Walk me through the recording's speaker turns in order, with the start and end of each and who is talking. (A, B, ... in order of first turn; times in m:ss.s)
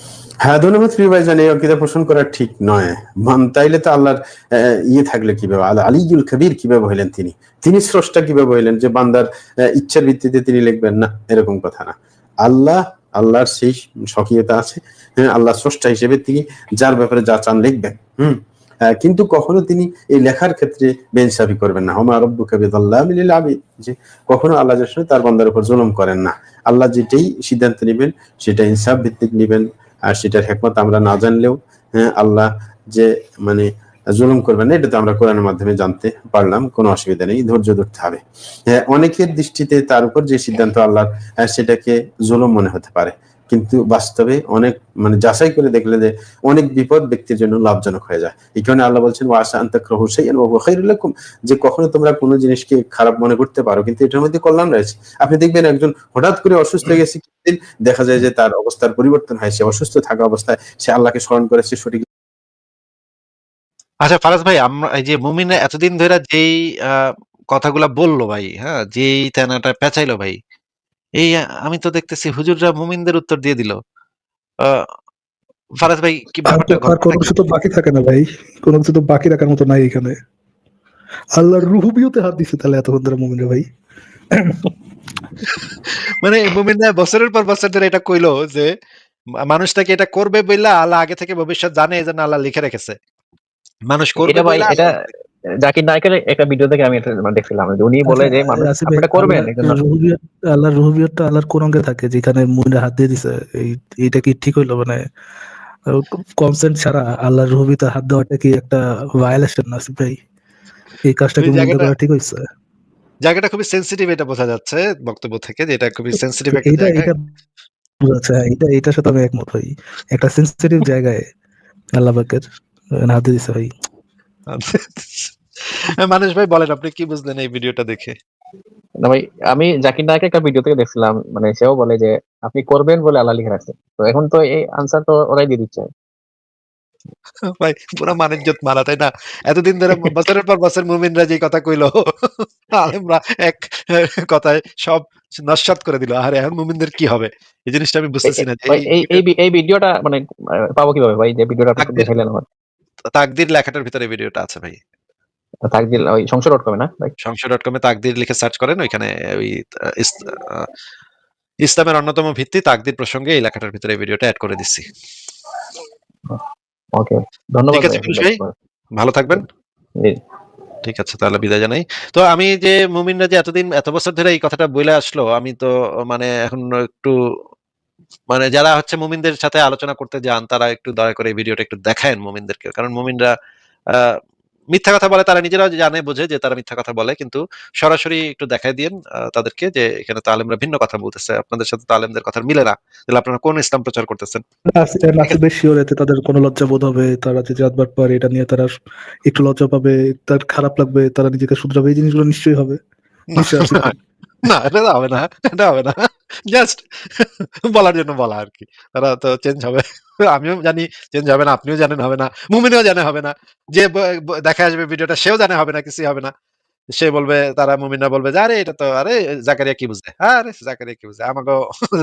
0:00.4-1:02.0 A
1:04.0-1:10.4 B
1:11.2-1:13.8 B
1:15.8-1:17.3 B
1:16.4-1:20.2 C
1:21.4-1:23.7 C
1:24.4-1:24.7 C
1:26.2-1:28.7 B
1:29.5-1:32.9 B
1:33.9-1:34.9 B
1:34.2-1:34.9 D
1:35.6-1:39.8 D
1:38.0-1:45.0 C
1:45.9-1:50.2 C
1:51.0-1:52.4 C
1:51.4-1:51.9 B
1:53.2-1:57.1 B
1:56.5-1:57.2 C
1:58.0-2:01.3 C
2:02.0-2:02.4 C
2:03.0-2:03.7 C
2:04.5-2:05.3 B
2:06.0-2:08.1 B
2:09.0-2:15.9 D
2:17.6-2:29.2 B
2:28.2-2:30.2 D
2:30.7-2:32.4 D
2:31.8-2:32.1 B
2:33.1-2:34.8 B
2:35.6-2:37.1 D
2:37.2-2:40.7 B
2:41.6-2:44.8 B
2:46.9-2:48.5 D
2:47.7-2:48.4 B
2:49.0-2:49.4 B
2:50.8-2:57.1 B
2:58.3-3:03.3 B
3:04.7-3:14.4 B
3:14.8-3:18.7 C
3:19.3-3:22.8 C
3:23.3-3:23.9 C
3:23.4-3:36.3 B
3:37.0-3:41.6 B